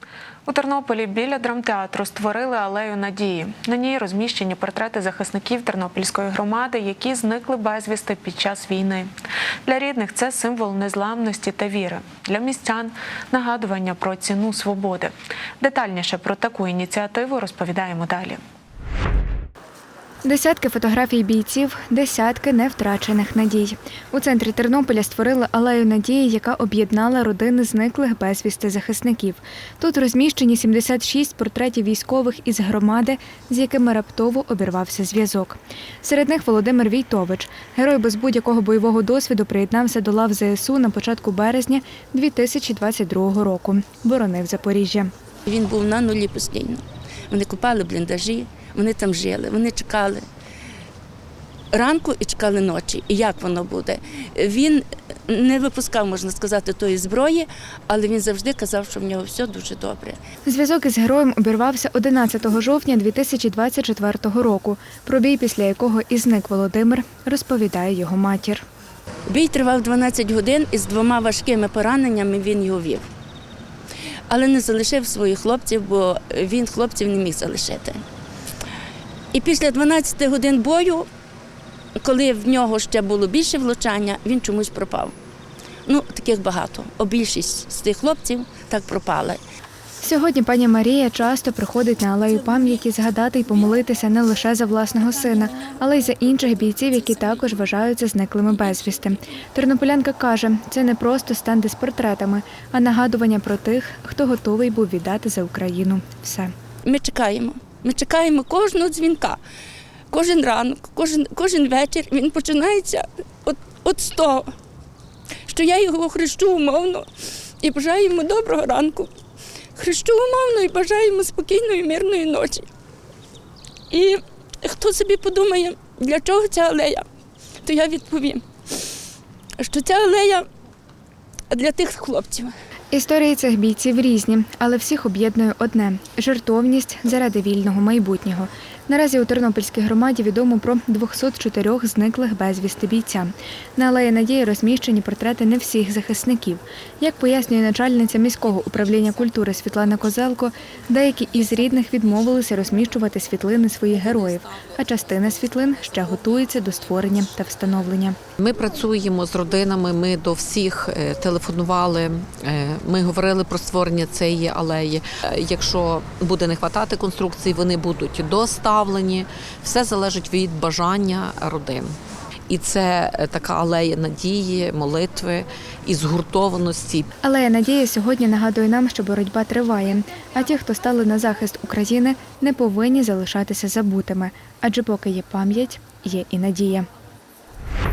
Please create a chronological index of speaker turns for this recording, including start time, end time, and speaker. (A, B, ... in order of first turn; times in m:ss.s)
0:00.5-0:09.1 A
0:09.7-0:18.4 A
0:20.2-0:45.1 B
0:45.5-0:46.8 C
0:47.3-0:50.2 C
0:51.7-1:00.2 C
1:00.5-1:08.6 B
1:09.3-1:13.0 C
1:14.3-1:17.9 C
1:19.4-1:21.0 C
1:22.0-1:25.1 C
1:25.9-1:29.4 C
1:30.0-1:46.5 B
1:46.9-1:49.4 C
1:50.1-1:54.5 C
1:55.5-1:57.1 C
1:57.6-1:59.1 C
1:59.8-2:02.6 C
2:03.9-2:07.0 C
2:07.6-2:08.4 C
2:09.6-2:10.4 C
2:11.5-2:12.5 C
2:12.9-2:38.2 B
2:38.4-2:52.0 D
2:52.5-2:57.1 D
2:57.2-3:06.9 B